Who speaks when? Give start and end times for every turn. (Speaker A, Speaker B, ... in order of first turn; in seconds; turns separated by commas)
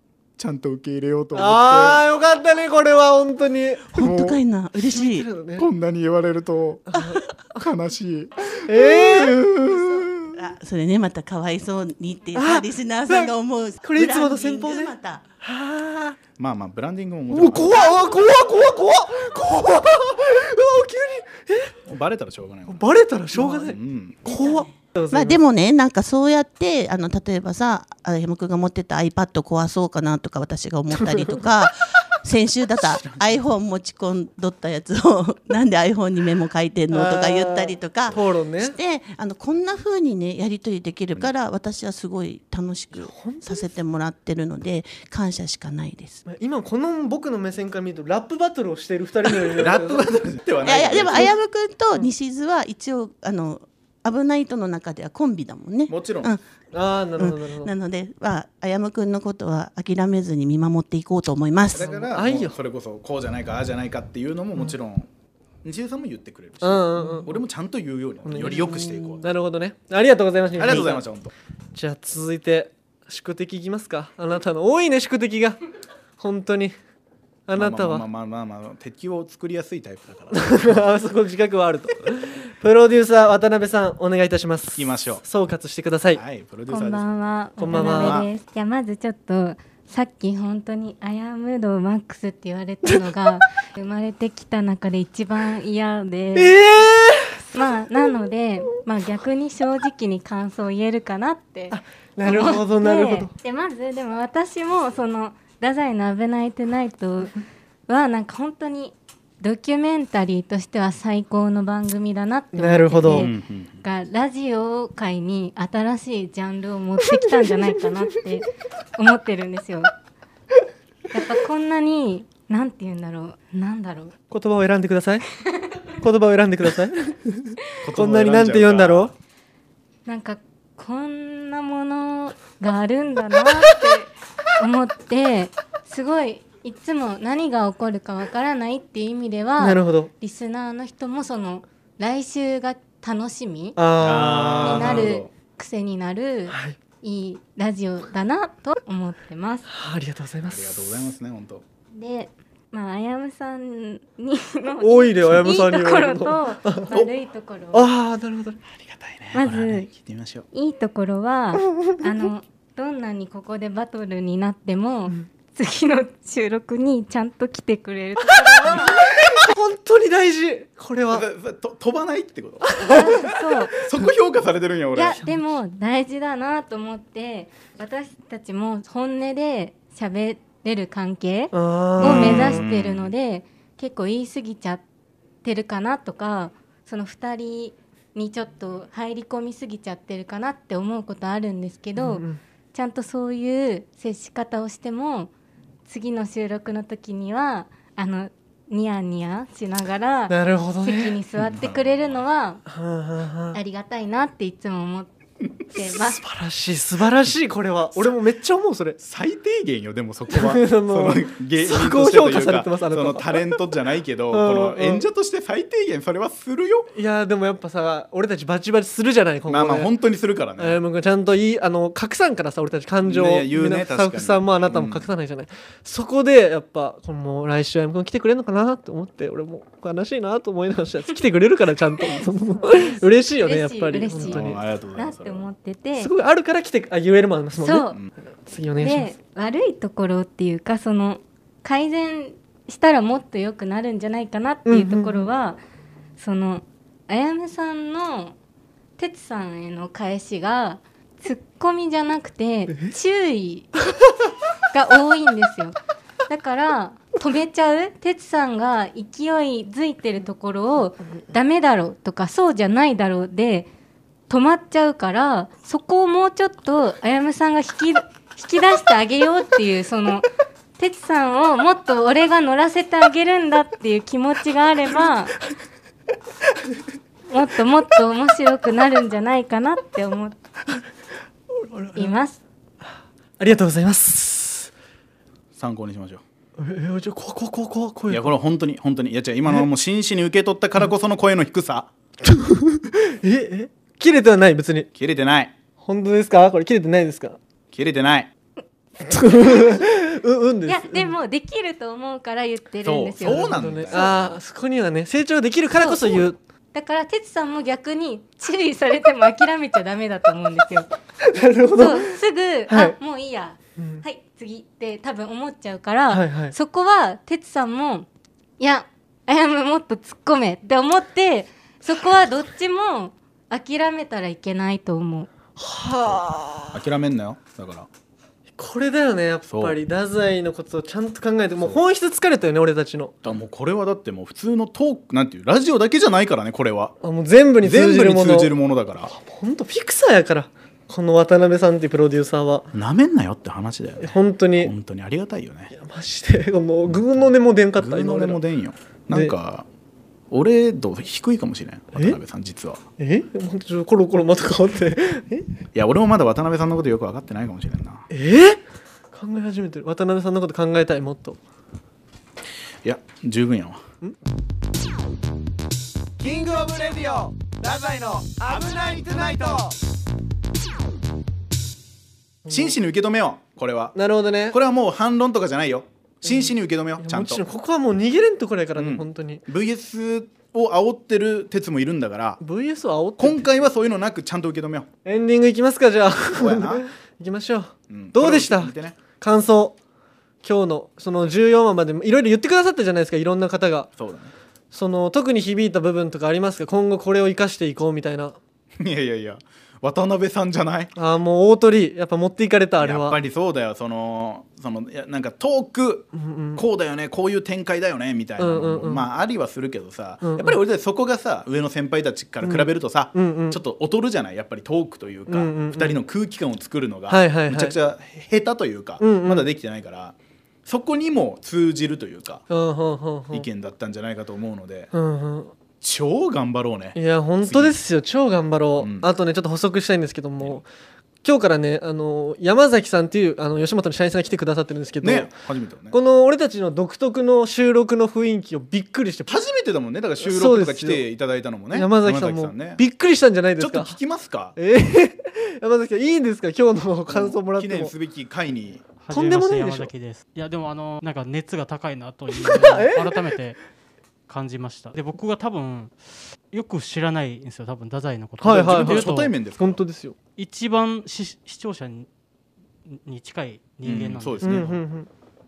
Speaker A: 0.4-2.0, Speaker B: 1.3-4.1, Speaker C: 3.9-5.3, Speaker A: 4.0-4.4, Speaker B: 4.8-5.7, Speaker A: 5.6-7.0, Speaker B: 6.9-7.6, Speaker A: 7.5-10.4, Speaker B: 8.6-9.4, Speaker C: 9.7-15.2, Speaker B: 12.3-16.2, Speaker A: 16.4-18.0, Speaker B: 17.3-21.8, Speaker A: 21.9-24.2, Speaker B: 22.7-25.4, Speaker C: 24.2-46.2, Speaker B: 31.1-31.3, Speaker A: 32.8-33.4, Speaker B: 36.9-38.7, Speaker B: 42.9-43.7, Speaker B: 46.3-51.3, Speaker A: 49.5-51.3, Speaker C: 50.6-56.4, Speaker A: 55.9-56.3, Speaker B: 56.7-57.7, Speaker C: 57.2-61.9, Speaker A: 61.7-65.1, Speaker B: 61.8-62.5, Speaker A: 65.6-69.3, Speaker B: 66.6-67.4, Speaker B: 68.2-71.0, Speaker C: 68.7-69.1, Speaker A: 70.5-71.3, Speaker B: 71.7-75.6, Speaker B: 76.2-76.7, Speaker B: 77.5-78.0, Speaker A: 77.5-80.8, Speaker B: 80.3-86.2, Speaker A: 84.8-85.2, Speaker A: 86.1-87.1, Speaker D: 86.7-96.6, Speaker B: 87.6-88.2, Speaker A: 87.7-88.3, Speaker B: 96.3-97.4, Speaker D: 97.5-119.9, Speaker B: 101.7-103.3, Speaker B: 112.5-113.3, Speaker A: 113.1-113.8, Speaker D: 121.1-124.2, Speaker B: 124.3-125.2, Speaker D: 125.5-125.8, Speaker B: 126.0-129.1, Speaker A: 127.8-129.1, Speaker D: 130.1-143.8, Speaker B: 139.6-140.1, Speaker B: 143.8-145.1, Speaker A: 144.0-145.3, Speaker D: 144.6-149.7, Speaker B: 146.5-146.8, Speaker B: 149.7-151.0, Speaker A: 150.4-151.6, Speaker D: 151.9-157.9, Speaker B: 154.8-157.1, Speaker B: 157.7-158.6, Speaker A: 158.7-160.4, Speaker D: 159.3-159.9, Speaker D: 160.5-169.1, Speaker B: 168.3-171.3, Speaker A: 171.1-172.8, Speaker B: 172.7-173.3, Speaker D: 172.8-173.8, Speaker A: 173.8-175.2, Speaker D: 174.9-184.8, Speaker B: 181.5-182.6, Speaker A: 182.0-183.1, Speaker D: 185.4-195.3, Speaker B: 192.0-192.4, Speaker D: 195.9-202.6, Speaker B: 200.3-201.2, Speaker A: 201.3-202.2, Speaker B: 202.7-203.6, Speaker D: 203.5-205.1, Speaker D: 205.7-206.2, Speaker B: 206.1-209.0, Speaker A: 209.0-216.9, Speaker B: 210.3-213.6, Speaker B: 214.3-215.1, Speaker B: 216.9-219.9, Speaker A: 219.5-220.8, Speaker B: 220.6-234.6, Speaker A: 223.0-225.1, Speaker D: 233.4-236.1, Speaker A: 234.2-235.5, Speaker B: 236.0-239.1, Speaker D: 237.6-238.0, Speaker D: 238.8-245.6, Speaker B: 244.7-245.3, Speaker D: 246.2-248.3, Speaker D: 249.0-253.7, Speaker D: 254.7-255.8, Speaker D: 256.3-263.7, Speaker D: 264.3-270.3, Speaker D: 270.8-275.4, Speaker D: 277.3-280.4, Speaker B: 281.5-282.1, Speaker D: 281.9-282.4, Speaker B: 283.4-284.7, Speaker A: 285.6-286.2, Speaker B: 286.6-288.3, Speaker A: 288.1-291.9, Speaker B: 292.2-294.9, Speaker A: 294.9-295.6, Speaker B: 295.8-297.4, Speaker A: 297.7-298.3, Speaker B: 299.0-301.2, Speaker D: 299.1-299.8, Speaker D: 300.7-304.1, Speaker A: 302.8-304.4, Speaker B: 303.2-306.4, Speaker D: 305.8-310.9, Speaker B: 311.2-312.1, Speaker D: 311.7-318.1, Speaker B: 312.7-312.9, Speaker B: 313.8-314.1, Speaker B: 316.1-316.5, Speaker D: 318.6-325.3, Speaker B: 325.6-326.9, Speaker A: 326.0-327.9, Speaker B: 328.6-333.1, Speaker A: 329.4-329.8, Speaker A: 333.2-336.9, Speaker B: 337.0-342.7, Speaker A: 337.6-339.1, Speaker A: 342.7-345.7, Speaker B: 344.0-344.7, Speaker B: 345.7-348.4, Speaker A: 346.9-347.2, Speaker A: 347.8-349.7, Speaker A: 350.3-352.8, Speaker B: 353.0-355.5, Speaker A: 355.7-358.1, Speaker B: 358.1-358.6, Speaker B: 359.1-361.4, Speaker A: 362.8-363.8, Speaker E: 366.2-369.8, Speaker B: 372.4-372.8, Speaker A: 372.5-377.4, Speaker B: 373.9-374.6, Speaker B: 376.3-379.4, Speaker A: 378.7-382.4, Speaker B: 382.4-383.6, Speaker A: 383.2-384.9, Speaker B: 385.1-389.8, Speaker A: 386.3-386.8, Speaker A: 387.9-389.0, Speaker B: 390.4-393.9, Speaker A: 394.0-394.3, Speaker B: 394.7-398.4, Speaker A: 398.8-400.9, Speaker B: 400.9-403.2, Speaker A: 402.8-422.4, Speaker B: 406.1-406.6, Speaker B: 408.4-409.1, Speaker B: 410.2-410.6, Speaker B: 412.4-413.6, Speaker B: 415.3-416.0, Speaker B: 417.1-417.7, Speaker B: 419.0-419.5, Speaker B: 422.5-423.4, Speaker A: 423.3-424.9, Speaker B: 424.9-425.5, Speaker A: 425.8-427.8, Speaker B: 426.9-430.7, Speaker A: 428.8-429.1, Speaker B: 431.2-435.3, Speaker A: 435.0-435.9, Speaker B: 435.9-439.3, Speaker A: 439.3-442.8, Speaker B: 440.2-441.1, Speaker B: 441.7-444.0, Speaker A: 443.6-444.6, Speaker B: 444.6-447.9, Speaker A: 447.1-448.8, Speaker F: 449.0-453.6, Speaker B: 449.1-449.9, Speaker B: 452.3-453.3, Speaker F: 454.3-456.0, Speaker F: 456.5-459.3, Speaker B: 458.4-460.1, Speaker A: 458.4-459.8, Speaker F: 460.4-462.1, Speaker F: 462.9-464.7, Speaker A: 463.8-464.8, Speaker B: 464.4-465.1